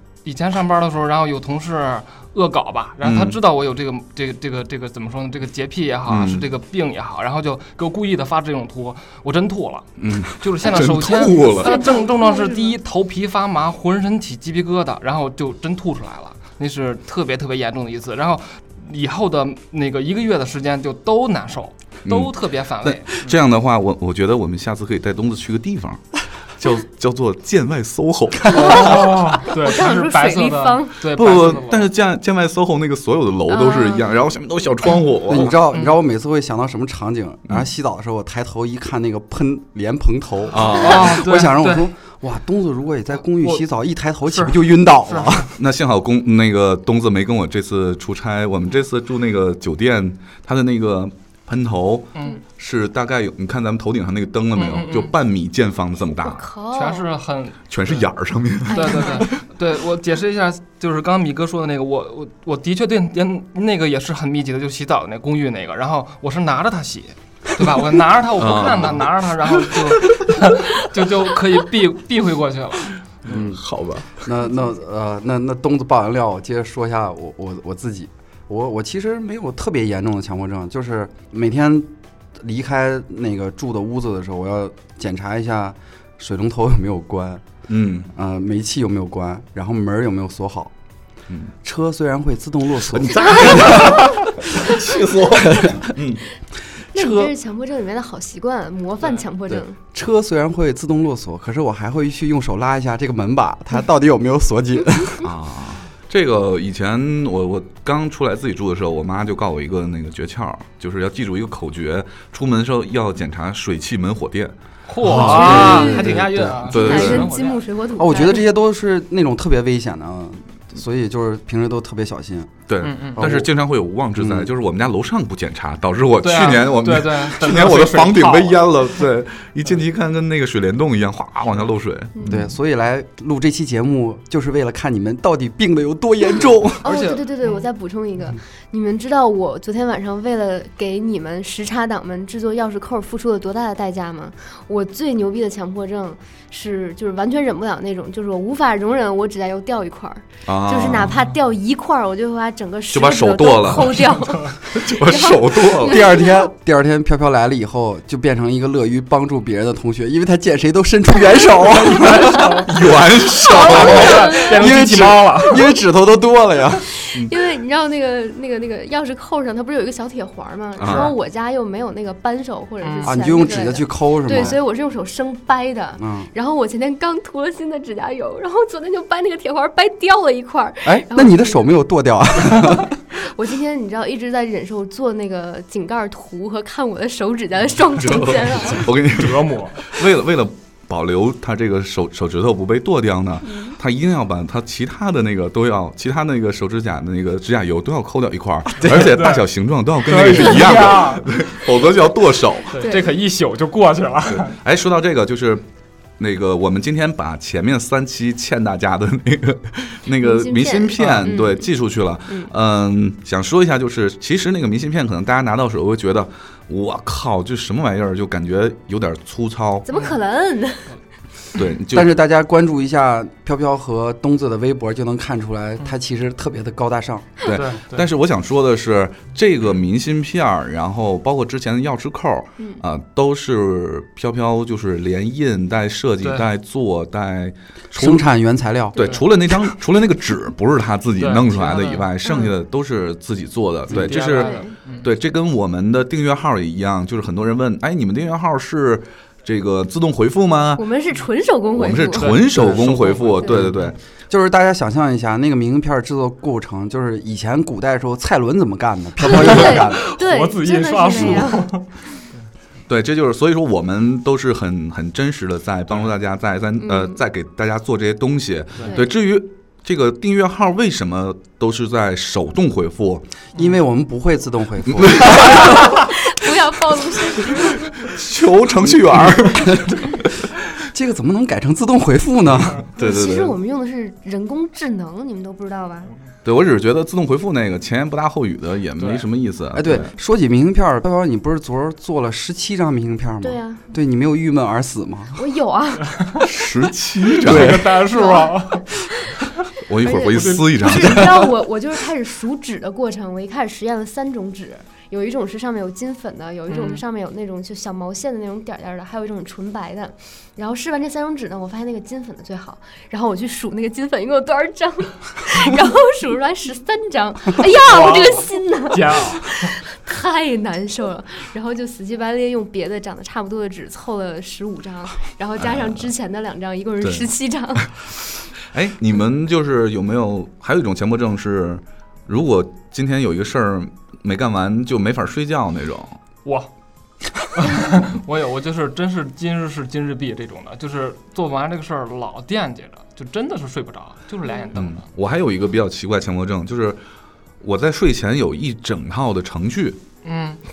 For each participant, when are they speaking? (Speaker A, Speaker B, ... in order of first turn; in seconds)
Speaker A: 0.2-9.9, 10.4-23.4, 28.5-31.9, 35.7-36.0, 40.7-41.9, 44.3-45.5, 54.5-55.1, 56.7-58.1, 58.7-73.0, 114.9-117.6, 122.8-123.3, 126.2-128.8, 136.8-137.5, 161.8-162.8, 163.5-165.7, 170.8-171.1, 172.8-173.2, 189.0-189.8, 198.8-201.3, 202.7-204.6, 211.0-211.3, 227.5-228.1, 241.2-242.4, 243.9-245.1, 252.1-253.9, 259.3-261.9, 289.0-289.3, 297.3-298.8, 300.3-301.3, 306.7-307.0, 317.8-319.7, 337.6-345.1, 350.2-350.6
Speaker B: 3.0-3.4, 6.1-6.5, 10.0-11.8, 22.1-29.4, 31.1-35.6, 40.5-41.2, 45.6-56.4, 57.7-59.3, 68.4-69.1, 69.7-70.3, 73.2-74.2, 87.7-88.1, 92.9-96.2, 105.2-117.3, 122.7-132.5, 150.5-151.1, 152.9-156.1, 162.7-164.3, 170.8-171.1, 188.0-202.8, 204.3-205.6, 206.2-219.9, 221.6-222.2, 227.4-238.2, 238.9-250.8, 251.8-254.0, 262.9-273.3, 274.9-276.1, 278.0-280.2, 283.0-283.6, 286.4-290.1, 296.4-297.9, 299.9-301.5, 325.6-326.0, 327.0-327.3, 328.6-336.2, 344.7-347.0, 347.6-350.0
Speaker C: 11.6-12.8, 28.5-31.0, 33.5-34.1, 56.2-57.0, 58.7-59.2, 96.9-99.8, 115.2-118.4, 136.8-156.5, 163.5-164.6, 167.0-181.8, 182.5-188.9, 193.5-193.8, 202.8-203.2, 210.2-211.7, 219.8-220.9, 242.2-242.5, 244.3-244.8, 250.8-252.4, 259.2-261.8, 266.8-267.2, 275.7-277.9, 283.0-286.1, 293.4-293.8, 295.4-296.1, 298.1-299.0, 300.0-327.9
Speaker D: 35.3-45.5, 73.3-73.6, 74.1-87.5, 88.1-90.7, 91.6-94.1, 94.6-95.9, 99.5-105.3, 115.0-117.0, 118.0-122.6, 123.2-123.5, 124.1-124.5, 132.2-136.8, 155.8-162.7, 163.7-166.8, 173.0-174.6, 176.0-176.3, 180.8-182.9, 198.8-199.1, 221.9-227.3, 237.9-239.0, 253.5-253.8, 254.3-260.1, 261.1-261.4, 273.6-275.6, 278.8-280.1, 280.9-282.9, 289.7-295.4, 297.4-297.9